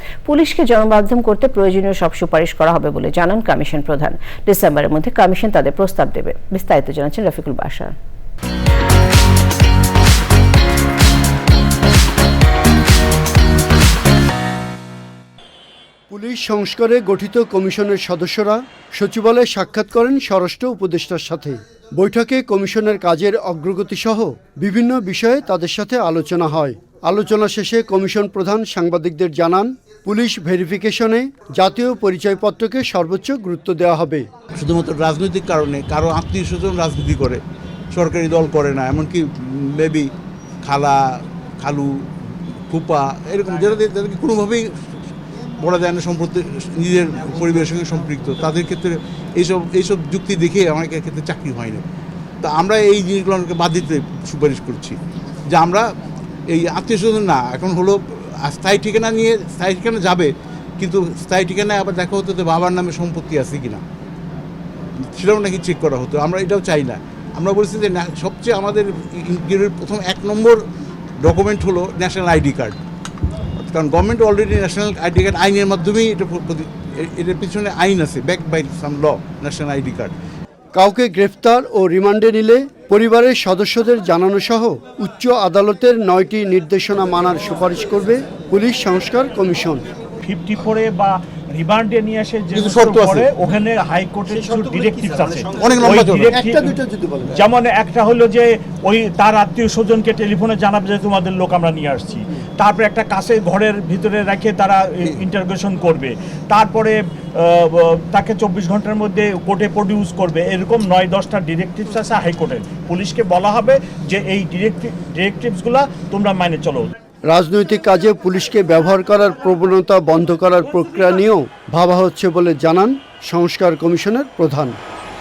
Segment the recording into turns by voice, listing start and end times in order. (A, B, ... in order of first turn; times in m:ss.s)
0:00.3-0:08.0 A
0:16.1-0:34.3 B
0:34.6-0:37.4 C
0:37.9-0:40.1 C
0:40.6-0:42.1 C
0:42.7-0:44.7 C
0:45.6-0:51.8 C
0:52.4-0:55.0 C
0:55.5-0:55.9 C
0:56.5-1:03.8 C
1:05.1-1:10.6 C
1:11.2-1:12.8 C
1:13.6-1:20.1 C
1:20.8-1:29.8 B
1:30.2-1:56.9 D
1:32.6-1:33.3 C
1:35.6-1:36.4 C
1:36.3-1:37.3 B
1:57.3-2:04.8 B